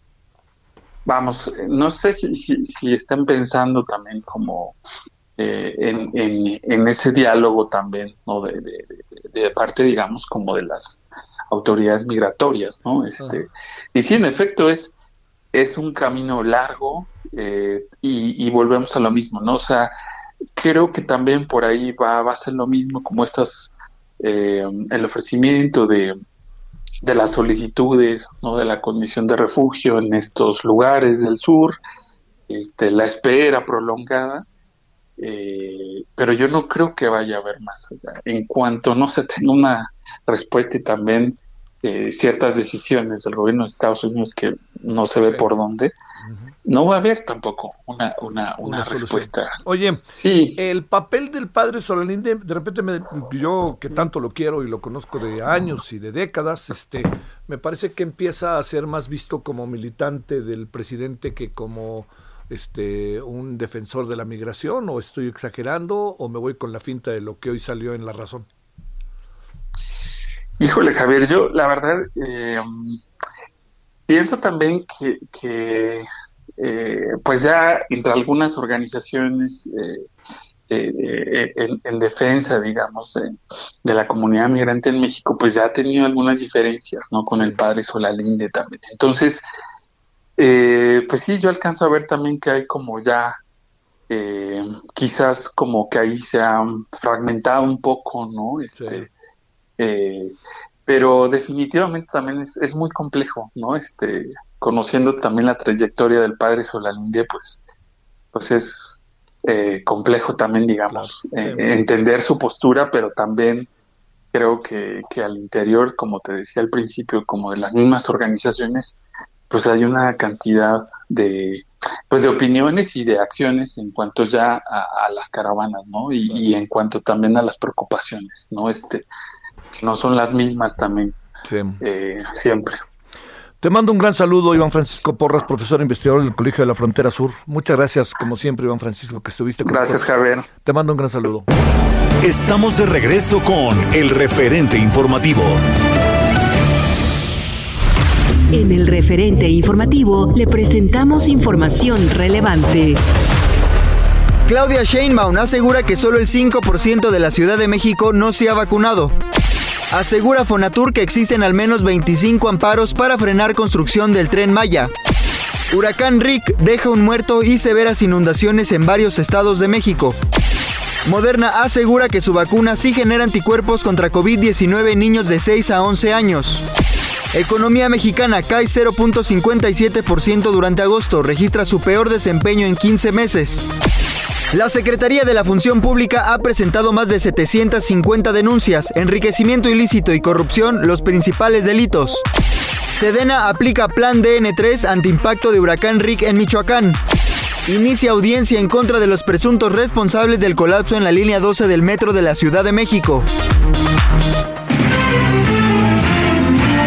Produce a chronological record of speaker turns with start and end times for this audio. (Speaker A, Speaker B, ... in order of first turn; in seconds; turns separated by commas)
Speaker A: 1.1-4.8, Speaker A: 5.4-14.9, Speaker A: 15.5-19.9, Speaker A: 20.6-26.1, Speaker A: 27.0-31.8, Speaker A: 32.5-34.5, Speaker A: 35.2-45.9, Speaker B: 45.2-45.5, Speaker B: 46.2-46.5, Speaker A: 46.7-49.6, Speaker B: 48.6-50.1, Speaker A: 50.1-50.6, Speaker B: 50.6-68.5, Speaker A: 70.6-73.0, Speaker A: 74.1-76.1, Speaker A: 76.6-80.0, Speaker A: 80.7-83.3, Speaker A: 83.8-89.5, Speaker B: 87.3-87.6, Speaker A: 90.4-93.4, Speaker A: 94.1-99.1, Speaker B: 98.8-99.1, Speaker A: 99.8-107.6, Speaker A: 108.3-113.7, Speaker B: 110.9-111.7, Speaker A: 114.3-119.0, Speaker A: 119.5-129.1, Speaker A: 129.7-131.2, Speaker B: 131.4-131.8, Speaker A: 131.8-132.8, Speaker B: 133.6-141.5, Speaker A: 139.6-140.5, Speaker C: 142.2-145.6, Speaker D: 148.5-153.0, Speaker E: 154.5-159.2, Speaker E: 159.9-164.9, Speaker E: 165.7-170.2, Speaker E: 171.1-176.7, Speaker E: 177.3-183.7, Speaker E: 184.5-192.2, Speaker E: 192.9-197.0, Speaker E: 197.7-203.3